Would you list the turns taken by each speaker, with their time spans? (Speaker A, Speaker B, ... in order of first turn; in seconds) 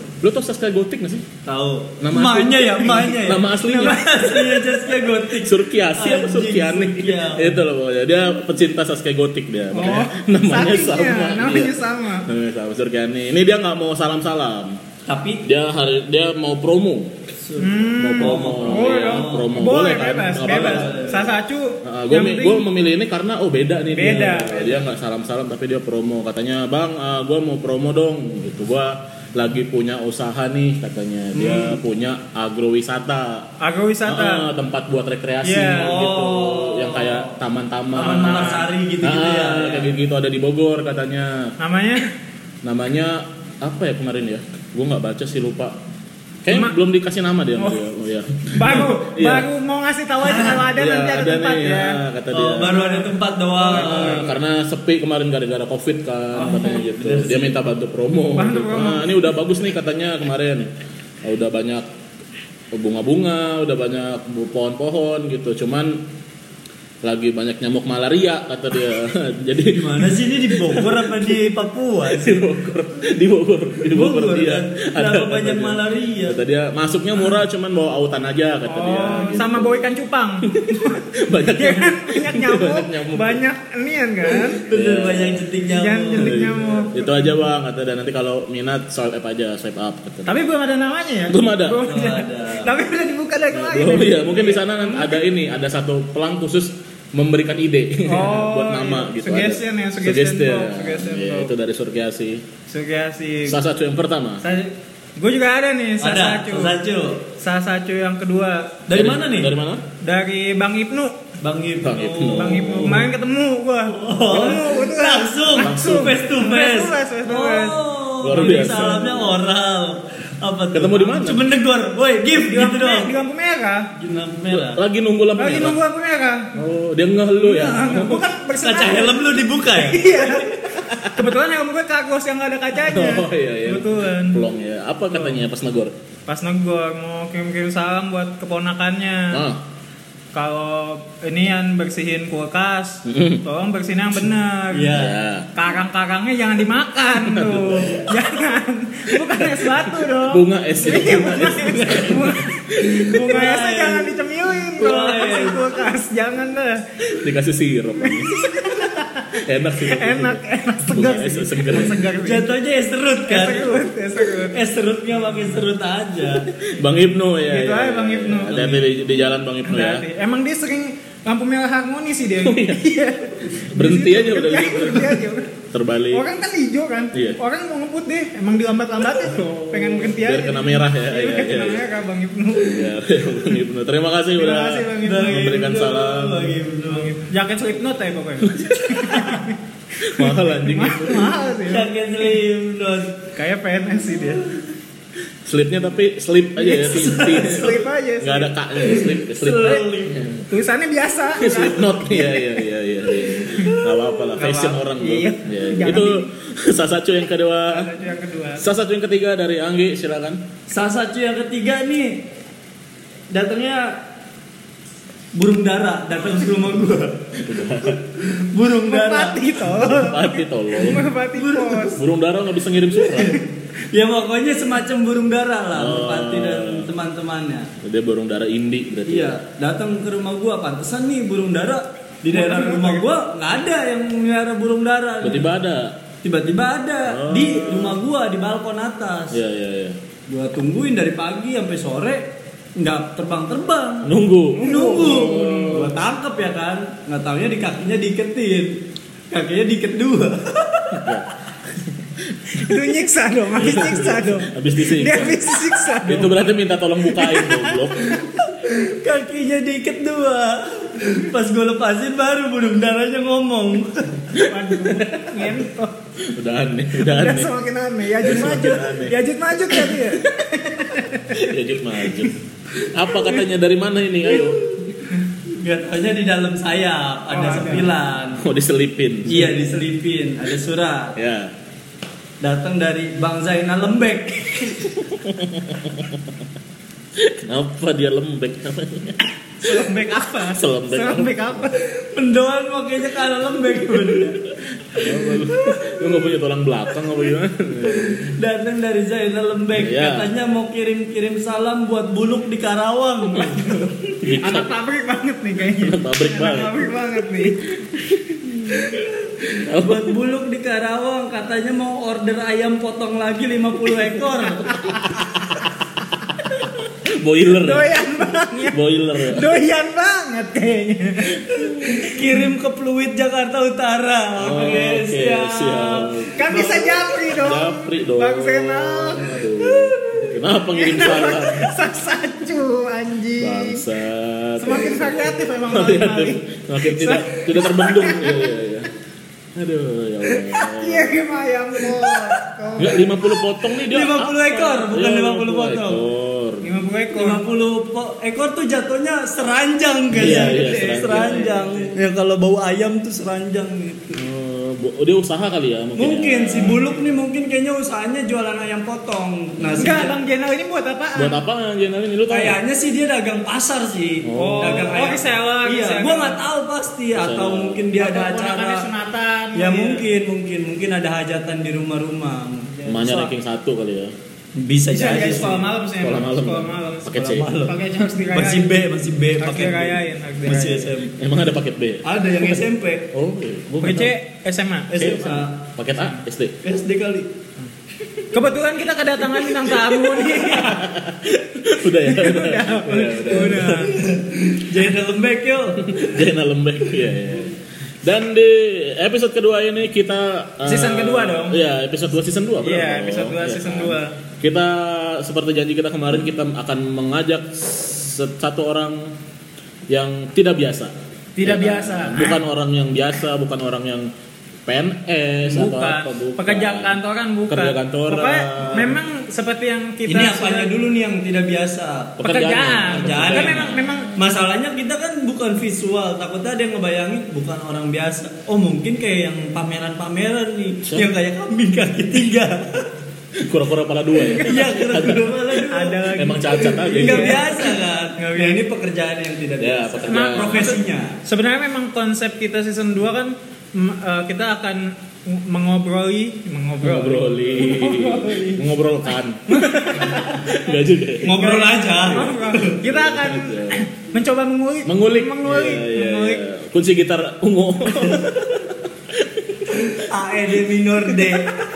Speaker A: 0.2-1.2, 2.0-4.2, 5.3-14.8, 15.4-17.1, 17.9-21.1, 21.8-33.5, 34.0-41.5, 42.6-45.7, 46.4-49.5, 50.5-52.8, 53.7-60.7, 61.2-61.9, 62.7-66.0, 67.0-71.4, 72.0-79.9, 80.5-83.4, 84.7-85.4, 86.1-90.4, 91.3-91.9, 93.5-102.4, 103.5-104.4, 108.9-109.8, 111.8-113.1, 115.6-116.2, 118.2-119.4, 120.7-121.5, 124.5-125.8, 126.5-128.2, 130.8-131.2, 132.8-135.9, 139.3-139.6, 143.0-143.4, 144.9-145.5, 147.2-148.3, 149.2-153.0, 157.2-158.5, 159.4-162.0, 166.4-170.1, 172.4-172.8, 173.5-176.2, 179.4-181.8, 182.6-186.6, 188.4-189.4, 190.0-191.3, 195.4-200.4, 201.4-207.9, 208.6-210.4, 217.4-218.0, 219.7-221.1, 221.9-223.4, 225.7-226.9, 227.8-229.4, 235.2-235.9, 237.1-238.0, 239.3-240.0, 244.0-245.9, 250.9-251.3, 252.4-252.9, 253.6-258.2, 264.4-265.5, 266.2-267.5, 268.2-269.2, 269.7-270.1, 271.3-274.9, 278.4-279.5, 281.1-281.5, 285.1-286.2, 287.2-289.7, 290.5-291.6, 294.9-298.4, 299.7-300.3, 304.2-304.7, 305.8-306.9, 308.0-308.9, 309.5-310.1, 317.0-317.9, 318.6-319.5, 324.4-326.4, 327.4-331.7, 333.4-338.9, 339.5-341.2, 342.8-346.7, 350.1-351.9, 354.1-356.8, 361.1-362.6, 364.2-365.0, 367.1-367.8, 372.8-374.1, 376.0-377.5, 381.2-382.6, 383.1-384.1, 384.9-386.6, 390.5-393.9, 395.8-409.1, 409.9-414.1, 414.6-419.0, 422.2-424.3, 433.4-435.4, 436.1-437.6, 439.6-440.8, 446.8-451.5, 452.1-453.8, 454.8-459.9
Speaker B: 1.4-7.6, 15.1-15.4, 17.4-19.5, 20.4-21.3, 31.3-31.8, 35.7-37.3, 37.9-39.9, 50.2-50.6, 52.3-54.3, 56.3-57.6, 69.7-72.4, 73.9-76.4, 84.7-86.8, 91.8-92.8, 106.0-107.2, 108.9-109.5, 111.4-113.0, 113.9-123.1, 124.0-124.8, 128.6-130.4, 144.7-145.2, 151.1-154.1, 154.8-155.7, 162.0-163.8, 164.4-166.5, 185.0-187.2, 191.7-193.2, 196.6-197.8, 198.8-200.2, 210.7-212.2, 213.3-214.0, 215.3-217.3, 217.9-219.5, 221.3-221.9, 223.0-227.7, 229.1-235.5, 236.2-239.4, 240.3-248.8, 249.3-251.1, 258.1-264.2, 275.5-278.4, 279.2-281.1, 282.4-285.0, 291.8-294.4, 295.0-295.8, 298.1-303.9, 309.5-315.1, 321.9-327.1, 329.2-329.9, 343.8-346.0, 347.1-354.2, 356.0-360.1, 362.3-368.9, 369.5-373.3, 374.5-375.6, 377.1-377.8, 378.3-381.1, 382.0-383.1, 384.9-385.6, 386.6-387.3, 393.3-396.0, 420.1-422.2, 422.8-432.9, 434.3-436.1, 436.8-441.2, 451.2-452.8, 459.9-461.6
Speaker C: 3.6-4.6, 9.7-12.3, 17.6-22.7, 23.9-24.8, 33.6-34.5, 35.4-36.0, 38.0-38.7, 41.6-42.1, 46.5-46.8, 48.5-52.0, 52.6-54.3, 58.3-59.2, 78.7-81.0, 81.5-84.6, 85.7-87.3, 90.2-95.2, 98.1-101.5, 102.7-103.6, 104.4-106.8, 107.4-108.8, 110.0-111.2, 112.2-117.8, 118.4-118.7, 122.4-123.9, 125.3-126.5, 127.4-130.5, 131.1-134.4, 135.1-135.4, 136.3-139.4, 140.3-144.9, 145.5-156.8, 158.0-162.5, 163.3-164.6, 167.5-168.9, 169.6-175.5, 176.1-182.8, 184.3-185.5, 186.9-189.6, 190.2-192.4, 193.3-194.4, 197.3-198.5, 200.5-202.6, 204.3-206.3, 207.7-208.6, 218.9-222.0, 232.3-233.1, 244.5-245.8, 252.5-256.4, 257.1-257.9, 264.4-265.9, 267.0-271.5, 277.3-277.9, 289.6-291.8, 304.3-307.7, 317.5-321.9, 326.3-329.4, 330.7-333.8, 334.6-338.4, 340.3-343.1, 346.6-347.4, 350.2-351.4, 359.8-361.4, 364.3-366.4, 367.9-370.0, 374.9-377.1, 377.6-378.7, 379.4-380.9, 383.8-385.1, 388.3-390.9, 392.0-394.0, 400.6-401.6, 402.6-404.1, 411.4-412.4, 415.5-420.7, 422.2-424.1, 435.6-438.6, 440.1-448.6, 449.5-450.5, 451.3-456.4